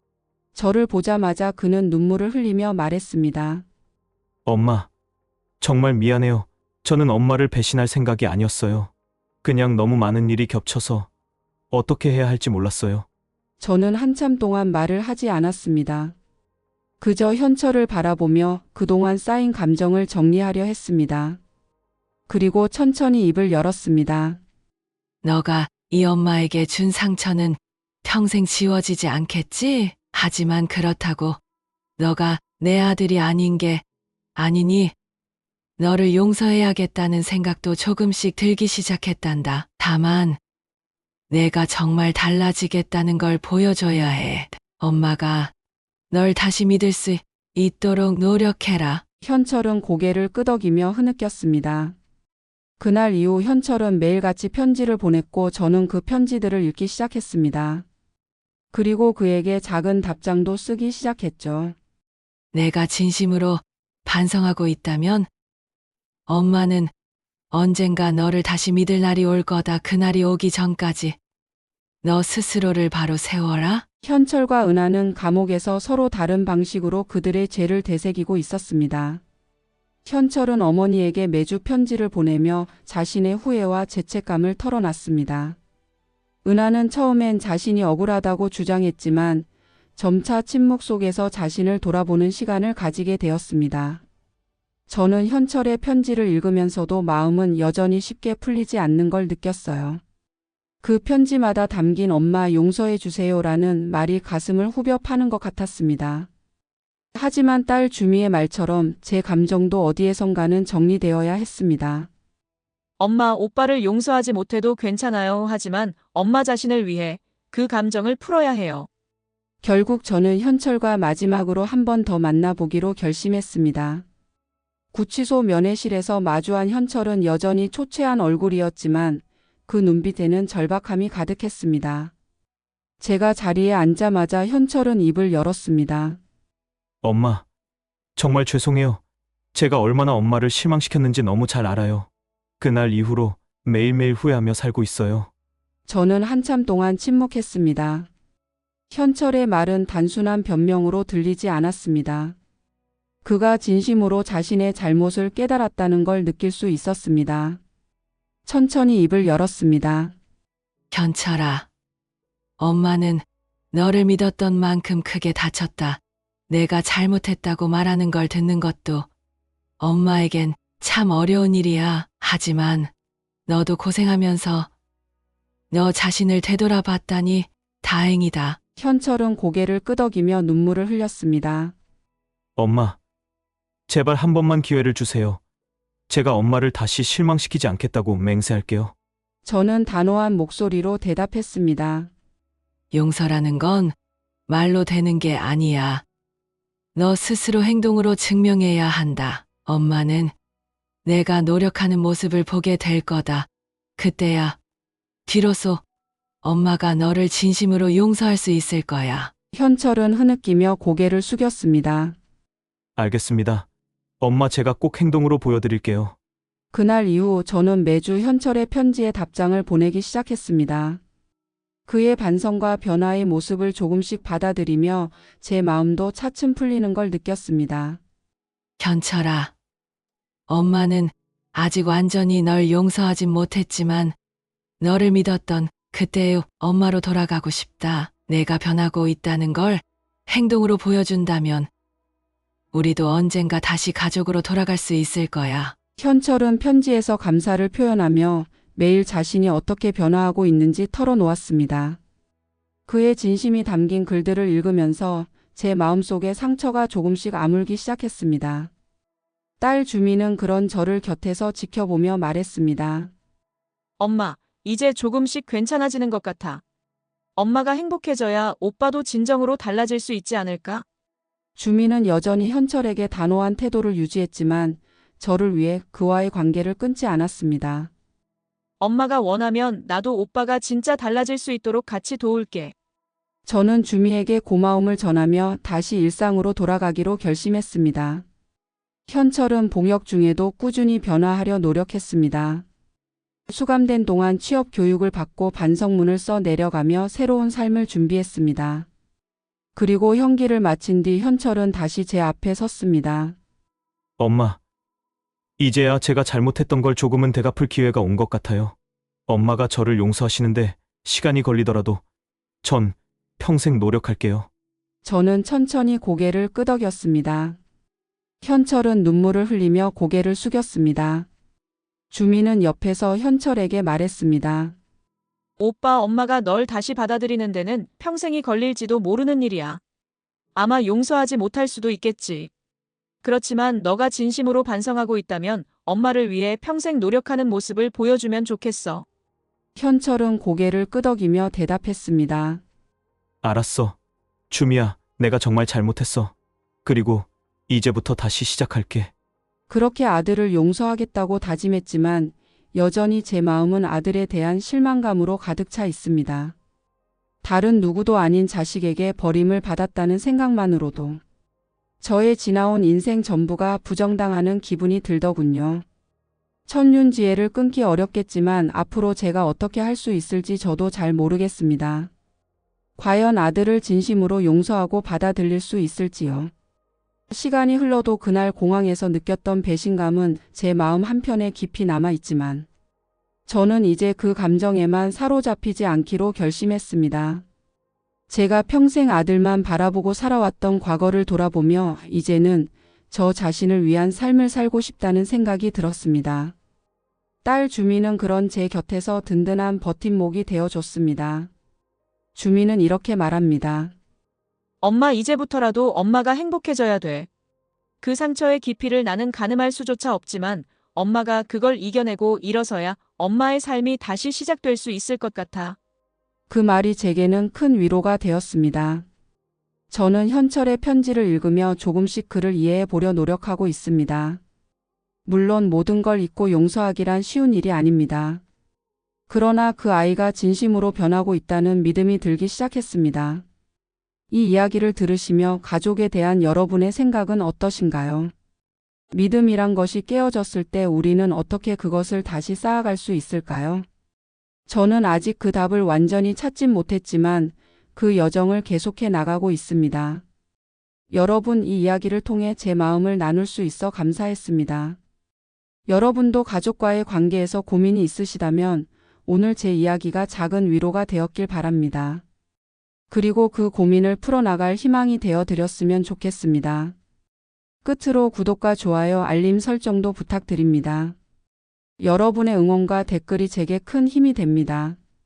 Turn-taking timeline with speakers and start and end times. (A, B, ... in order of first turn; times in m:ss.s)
0:00.6-0:03.6 A
0:04.5-0:04.9 B
0:05.6-0:08.9 B
0:09.4-0:11.1 B
0:11.7-0:13.1 B
0:13.6-0:16.2 A
0:17.0-0:21.4 A
0:22.3-0:24.4 A
0:25.2-0:31.4 C
0:32.0-0:33.8 C
0:34.4-0:34.9 C
0:35.8-0:40.4 C
0:41.3-0:45.5 C
0:46.1-0:49.0 C
0:49.2-0:52.0 A
0:52.8-0:57.8 A
0:58.7-1:01.8 A
1:02.5-1:05.3 C
1:06.3-1:06.9 C
1:07.5-1:11.2 C
1:12.0-1:13.9 C
1:14.0-1:19.2 A
1:20.1-1:25.6 A
1:26.4-1:29.5 A
1:30.0-1:34.0 A
1:34.9-1:40.0 A
1:40.8-1:46.3 A
1:47.2-1:52.1 A
1:53.0-1:58.9 D
1:59.6-2:04.0 A
2:04.9-2:12.1 A
2:13.0-2:16.2 A
2:17.0-2:17.4 B
2:18.2-2:19.0 B
2:19.5-2:22.1 B
2:22.6-2:25.3 B
2:25.9-2:28.1 A
2:28.9-2:32.4 A
2:33.2-2:37.6 A
2:38.5-2:40.2 A
2:40.9-2:41.7 C
2:42.6-2:49.1 C
2:49.8-2:52.9 C
2:53.5-2:54.7 C
2:55.7-2:58.6 C
2:58.8-3:01.7 A
3:02.6-3:03.0 B
3:03.9-3:05.4 B
3:06.1-3:08.9 B
3:09.4-3:12.1 A
3:12.9-3:13.9 C
3:14.5-3:16.0 C
3:17.0-3:20.3 C
3:21.0-3:24.6 C
3:25.3-3:25.8 C
3:26.4-3:29.3 C
3:29.5-3:32.2 A
3:33.0-3:33.7 B
3:34.2-3:36.2 B
3:36.7-3:41.0 A
3:41.9-3:48.0 A
3:48.8-3:49.5 C
3:50.5-3:54.2 C
3:54.8-4:01.7 C
4:02.7-4:05.8 C
4:06.0-4:12.0 A
4:12.9-4:18.7 A
4:19.6-4:23.1 A
4:24.0-4:26.6 D
4:27.4-4:30.8 D
4:31.6-4:37.9 A
4:38.8-4:42.7 D
4:43.5-4:48.2 A
4:49.1-4:52.6 A
4:53.5-4:58.9 A
4:59.8-5:03.4 A
5:04.2-5:04.6 B
5:05.6-5:08.8 B
5:09.3-5:12.0 B
5:12.6-5:14.5 B
5:15.0-5:17.6 A
5:18.4-5:21.3 A
5:22.1-5:24.8 A
5:25.6-5:29.8 D
5:30.6-5:32.5 D
5:33.2-5:39.0 D
5:39.8-5:42.6 A
5:43.4-5:44.0 B
5:44.5-5:46.3 B
5:46.8-5:49.1 B
5:49.7-5:56.6 A
5:57.4-6:01.2 A
6:02.0-6:05.8 A
6:06.7-6:12.1 A
6:13.0-6:16.5 A
6:17.3-6:22.7 A
6:23.5-6:27.4 A
6:28.3-6:36.6 A
6:37.4-6:41.5 A
6:42.4-6:43.9 A
6:44.8-6:47.3 D
6:48.0-6:55.8 D
6:56.5-6:59.1 A
6:59.9-7:04.4 A
7:05.3-7:08.4 A
7:09.3-7:13.4 A
7:14.3-7:18.3 A
7:19.1-7:23.8 A
7:24.7-7:30.2 A
7:31.1-7:35.0 A
7:35.9-7:42.2 A
7:43.1-7:47.0 A
7:47.8-7:51.2 A
7:52.0-7:55.0 A